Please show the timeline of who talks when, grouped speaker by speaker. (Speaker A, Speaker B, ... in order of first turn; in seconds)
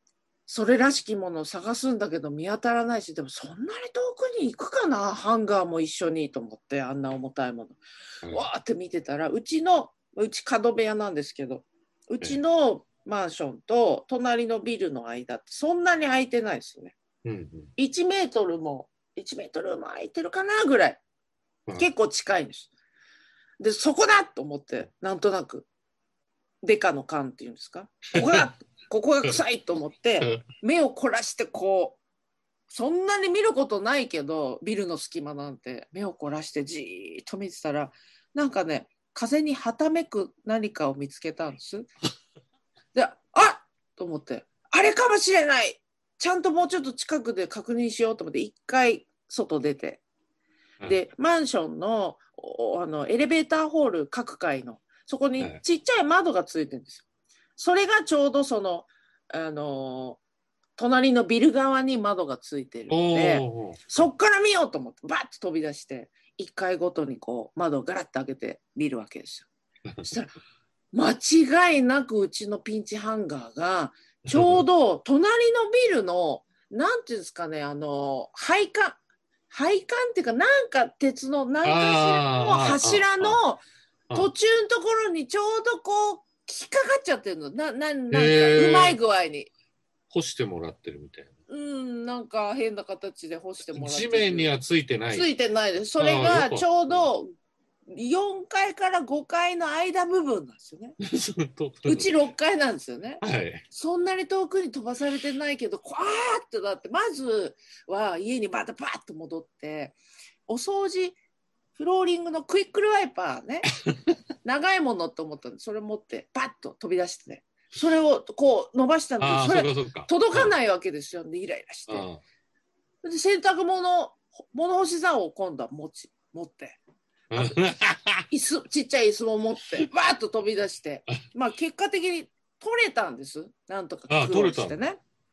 Speaker A: 0.5-16.9, 17.8-21.0, 21.7-22.7, 23.6-25.7, 26.6-32.0, 32.7-41.9, 42.9-50.0, 50.8-57.0, 57.6-60.2, 60.8-69.5, 70.0-70.3, 70.9-79.0, 79.5-83.6, 84.1-89.5, 91.5-94.5, 95.1-97.3, 97.9-101.0, 101.8-111.2, 111.8-113.7, 114.4-122.1, 123.0-126.8, 128.3-135.0
Speaker B: 17.2-17.7, 28.1-28.4, 62.9-64.0, 69.8-70.1, 74.3-74.6, 81.6-83.4, 88.1-89.0, 90.1-91.3, 93.7-95.3, 96.0-97.1, 101.0-102.1, 103.2-103.6, 119.2-120.5, 121.9-122.2, 127.3-128.3, 134.1-134.8